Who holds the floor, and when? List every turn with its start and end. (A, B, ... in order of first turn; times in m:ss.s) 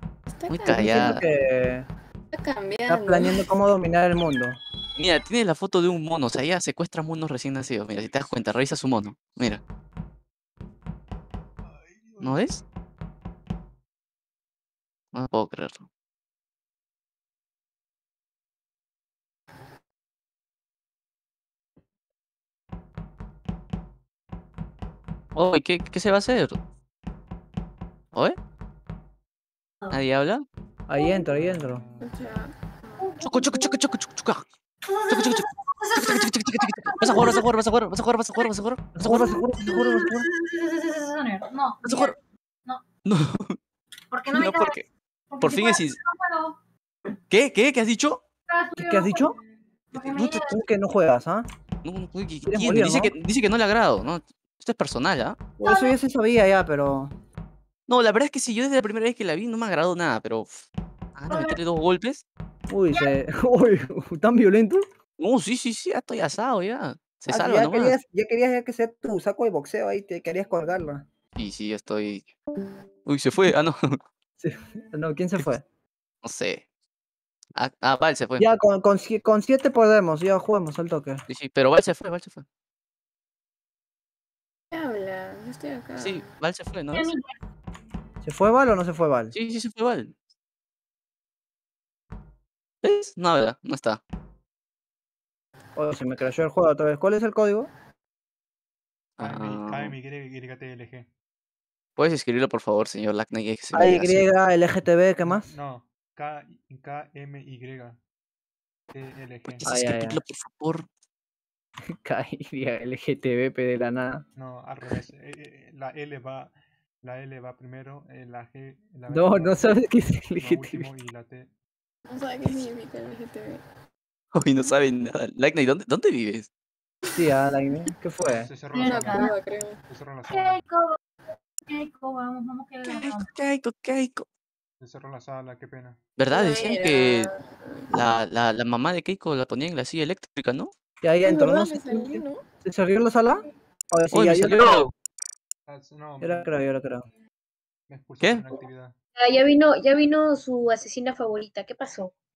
0:00.3-0:01.2 A
0:00.5-0:01.2 B
0:00.7-0:01.9 C
0:02.3-0:03.5 A
0:02.9-0:04.6 C
0:05.0-0:09.6 B
0:11.6-0:12.5 D
0:12.2-0:12.6 B
0:15.1-0:15.9 B
0:25.3-0:26.6 B
0:29.9-0:30.4 B
0:30.9-0:31.8 C
0:31.3-0:32.2 D
0:32.0-0:33.1 A
0:33.0-0:33.7 E
0:33.2-0:34.4 B
0:34.8-0:37.5 E
0:35.1-0:39.5 B
0:39.0-0:40.3 C
0:39.6-0:42.2 E
0:41.8-0:42.2 B
0:43.0-0:43.6 B
0:44.1-0:46.6 E
0:44.3-0:44.8 B
0:45.4-0:46.0 B
0:47.3-0:48.2 B
0:48.5-0:49.4 E
0:48.8-0:49.4 C
0:49.9-0:50.5 B
0:50.0-0:50.6 E
0:50.3-0:51.5 C
0:51.8-0:55.4 B
0:52.5-0:53.1 C
0:55.6-0:57.1 C
0:55.6-0:56.0 E
0:57.9-1:00.6 B
1:01.2-1:02.2 B
1:01.3-1:01.6 E
1:02.7-1:04.8 C
1:02.9-1:03.2 E
1:05.2-1:08.0 B
1:07.3-1:11.0 C
1:11.4-1:12.3 B
1:13.1-1:14.0 B
1:14.4-1:15.6 C
1:16.2-1:16.6 B
1:17.6-1:18.5 B
1:18.4-1:21.2 C
1:21.3-1:22.4 B
1:24.7-1:26.3 A
1:26.0-1:27.1 B
1:26.9-1:27.4 E
1:28.2-1:29.4 C
1:29.3-1:30.2 B
1:32.8-1:34.0 B
1:35.8-1:37.7 C
1:39.2-1:40.0 B
1:39.2-1:41.1 D
1:42.0-1:44.2 B
1:43.7-1:45.5 C
1:45.2-1:48.0 D
1:48.9-1:49.7 D
1:49.5-1:50.9 B
1:49.6-1:50.2 C
1:51.9-1:54.2 C
1:54.4-1:59.8 D
1:59.1-2:00.9 C
2:00.4-2:01.5 D
2:02.1-2:03.6 A
2:04.4-2:06.5 B
2:07.1-2:08.5 C
2:08.2-2:09.3 D
2:08.6-2:09.4 E
2:09.1-2:09.8 A
2:09.9-2:10.6 D
2:10.3-2:11.0 E
2:11.6-2:13.3 E
2:12.8-2:14.3 B
2:14.8-2:16.0 D
2:16.2-2:17.3 B
2:16.3-2:17.9 A
2:17.9-2:20.7 B
2:21.0-2:24.9 C
2:21.2-2:22.4 A
2:24.1-2:24.9 B
2:25.7-2:26.6 D
2:26.2-2:27.1 C
2:27.9-2:29.0 D
2:29.2-2:32.1 F